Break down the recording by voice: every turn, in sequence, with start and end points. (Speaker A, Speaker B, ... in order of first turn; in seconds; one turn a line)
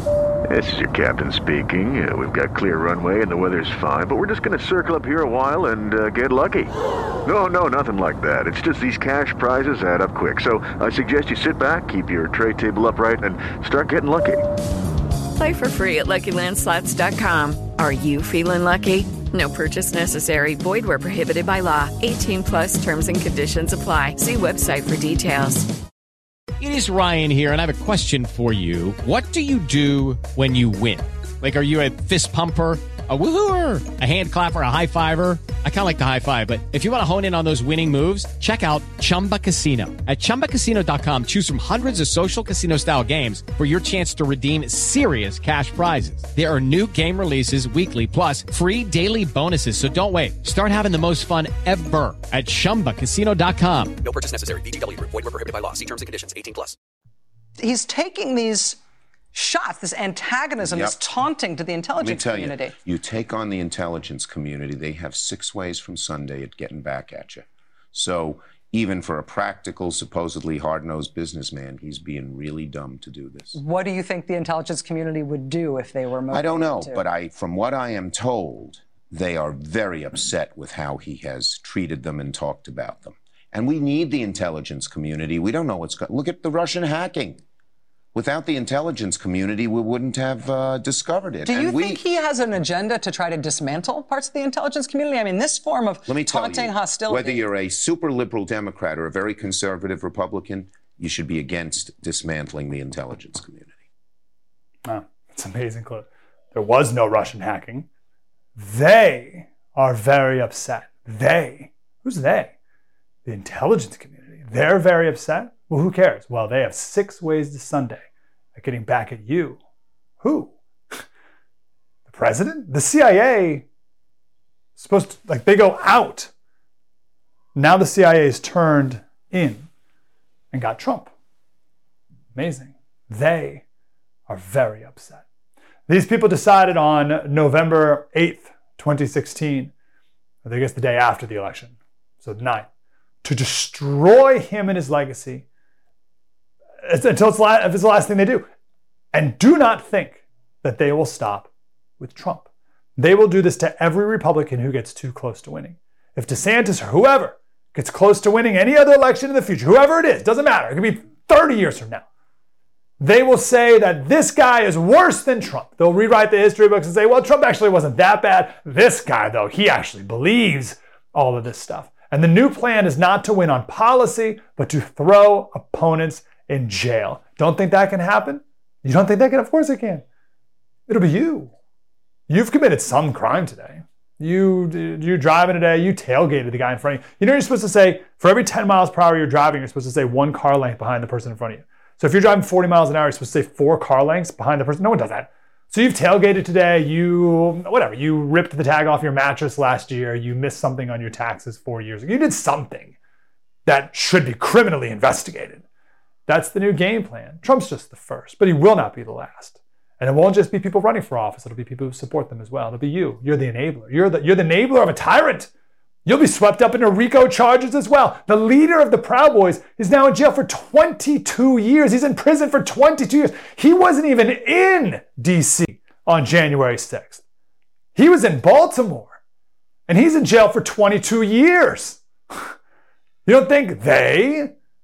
Speaker A: 0.5-6.7
Speaker A: 7.2-14.4
Speaker B: 15.3-25.7
Speaker C: 26.6-54.0
Speaker D: 54.0-56.8
Speaker E: 57.6-58.8
Speaker E: 59.3-62.7
Speaker F: 60.6-61.0
Speaker F: 62.0-73.6
Speaker E: 73.5-77.0
Speaker F: 76.3-87.4
Speaker F: 88.1-92.1
Speaker E: 91.5-97.4
Speaker F: 96.0-103.8
Speaker G: 104.8-107.9
Speaker G: 108.5-112.5
Speaker G: 113.2-119.6
Speaker G: 120.2-121.0
Speaker G: 122.1-123.6
Speaker G: 124.8-126.3
Speaker G: 127.5-129.7
Speaker G: 130.5-131.1
Speaker G: 132.3-133.6
Speaker G: 134.3-135.2
Speaker G: 135.9-139.7
Speaker G: 140.4-142.7
Speaker G: 143.2-145.4
Speaker G: 146.8-148.5
Speaker G: 149.1-162.0
Speaker G: 163.0-180.0
Speaker G: 180.9-181.5
Speaker G: 182.3-202.9
Speaker G: 203.7-205.6
Speaker G: 206.3-215.5
Speaker G: 216.1-227.2
Speaker G: 227.9-229.2
Speaker G: 229.9-232.5
Speaker G: 233.2-234.5